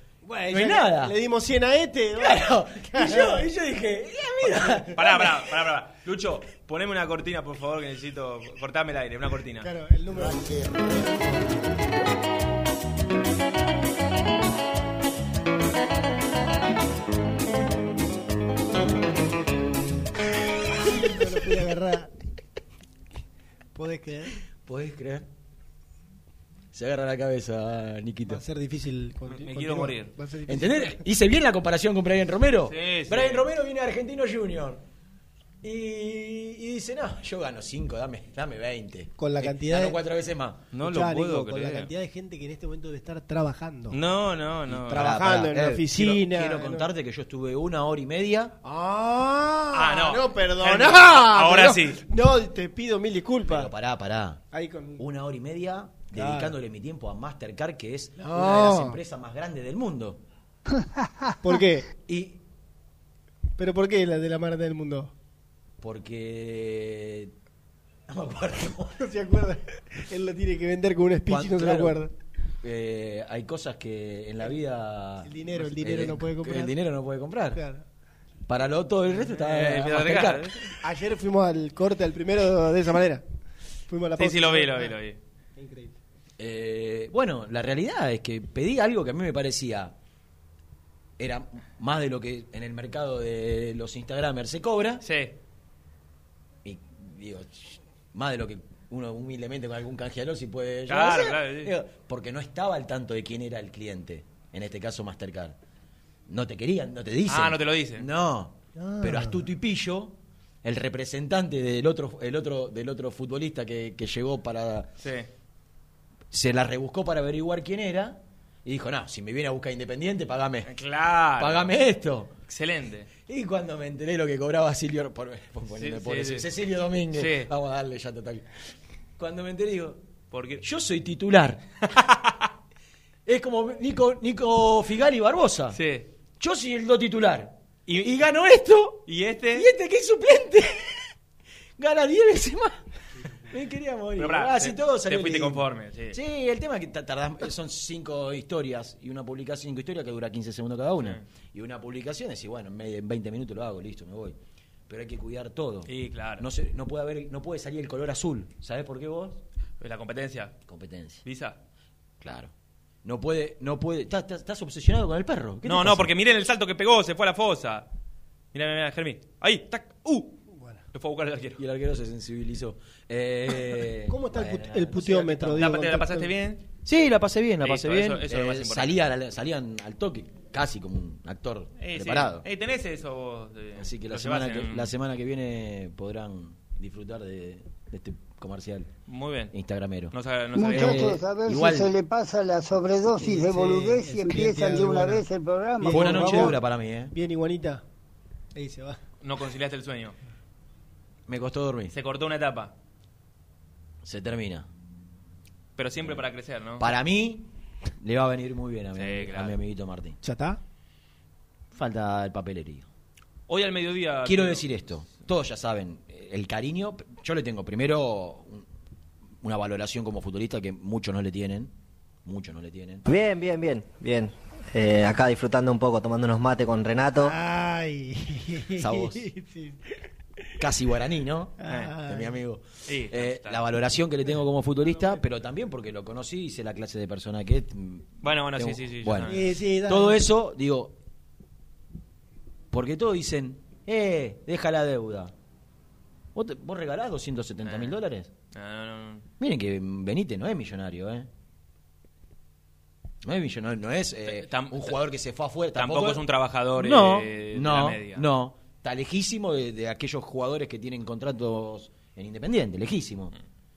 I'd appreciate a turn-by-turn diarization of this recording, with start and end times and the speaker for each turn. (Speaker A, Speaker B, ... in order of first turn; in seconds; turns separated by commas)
Speaker A: 0.2-3.5, Speaker B: 0.5-1.1, Speaker B: 2.2-5.0, Speaker A: 4.7-5.2, Speaker C: 4.9-9.7, Speaker A: 9.6-11.4, Speaker A: 20.8-22.1, Speaker A: 23.7-24.4, Speaker B: 24.6-25.3, Speaker B: 26.7-28.4, Speaker A: 28.2-31.0, Speaker C: 29.3-30.1, Speaker B: 30.5-34.8, Speaker C: 32.7-33.5, Speaker B: 35.6-40.6, Speaker A: 39.2-40.0, Speaker C: 40.7-41.9, Speaker A: 40.8-44.0, Speaker C: 43.9-45.1, Speaker B: 44.7-48.5, Speaker A: 44.9-46.9, Speaker A: 48.6-53.7, Speaker C: 49.7-52.0, Speaker B: 53.5-54.4, Speaker A: 54.5-55.0, Speaker B: 55.0-60.2, Speaker A: 56.1-56.5, Speaker A: 58.2-59.0, Speaker A: 61.4-61.9, Speaker B: 62.1-62.4, Speaker A: 63.6-65.1, Speaker B: 65.8-67.3, Speaker B: 68.1-69.0, Speaker A: 69.0-72.1, Speaker B: 71.2-72.0, Speaker B: 72.6-77.6, Speaker A: 75.2-76.7, Speaker A: 77.5-77.8, Speaker B: 78.5-80.6, Speaker C: 79.1-80.7, Speaker A: 80.8-83.2, Speaker A: 83.9-85.0, Speaker C: 84.2-85.2, Speaker A: 85.5-86.0, Speaker B: 86.4-89.9, Speaker B: 91.2-95.0, Speaker C: 95.0-95.3, Speaker B: 96.6-105.6, Speaker C: 100.9-101.7, Speaker B: 106.3-114.9, Speaker C: 107.3-108.0, Speaker A: 108.8-109.4, Speaker C: 115.0-115.3, Speaker B: 116.3-120.7, Speaker C: 120.7-121.7, Speaker B: 121.4-122.3, Speaker C: 122.5-123.1, Speaker B: 123.3-128.5, Speaker C: 125.8-126.5, Speaker C: 127.1-127.5, Speaker B: 129.2-130.0, Speaker C: 130.3-130.6, Speaker B: 130.6-131.6, Speaker C: 131.9-132.3, Speaker B: 133.2-135.8, Speaker C: 135.7-136.1, Speaker B: 136.4-139.0, Speaker C: 137.9-138.1, Speaker C: 139.1-139.7, Speaker B: 139.5-141.0, Speaker B: 141.8-142.8, Speaker B: 143.5-159.4, Speaker C: 144.2-146.2, Speaker C: 155.9-156.5, Speaker C: 159.8-160.6, Speaker B: 160.7-161.2, Speaker C: 161.2-161.6, Speaker B: 162.2-162.5, Speaker B: 163.0-166.1, Speaker C: 165.6-167.9, Speaker C: 168.5-170.4, Speaker A: 170.5-170.8, Speaker C: 170.9-171.6, Speaker B: 171.6-175.6, Speaker A: 174.1-176.3, Speaker C: 175.4-176.6, Speaker B: 176.8-182.4, Speaker C: 177.6-179.0, Speaker C: 181.8-184.9, Speaker B: 183.8-188.9, Speaker C: 189.1-189.5, Speaker B: 189.5-190.1, Speaker C: 190.1-191.2, Speaker D: 190.5-196.6, Speaker B: 190.6-191.9, Speaker A: 193.1-195.2, Speaker A: 195.8-196.6, Speaker B: 195.9-197.1, Speaker A: 197.1-197.8, Speaker A: 198.5-199.0, Speaker C: 199.2-200.2, Speaker B: 201.3-201.9, Speaker C: 201.9-202.7, Speaker B: 204.0-204.7, Speaker C: 205.8-206.9, Speaker B: 206.8-207.5, Speaker B: 208.0-210.2, Speaker C: 208.9-209.6, Speaker A: 210.2-210.6, Speaker B: 211.7-212.9, Speaker C: 213.5-215.1, Speaker B: 214.2-218.7, Speaker B: 219.4-221.7, Speaker B: 222.2-223.1, Speaker E: 223.1-227.3, Speaker A: 227.2-230.0, Speaker B: 228.8-229.3, Speaker B: 230.6-240.9, Speaker A: 231.6-232.3, Speaker C: 231.7-231.9, Speaker C: 232.9-233.6, Speaker C: 238.2-239.5, Speaker A: 239.3-240.2, Speaker B: 242.7-245.3, Speaker B: 246.3-248.3, Speaker C: 247.6-248.0, Speaker C: 248.5-249.2, Speaker B: 249.4-251.3, Speaker B: 253.2-256.2, Speaker C: 254.2-255.0, Speaker C: 255.7-258.3, Speaker B: 256.8-263.3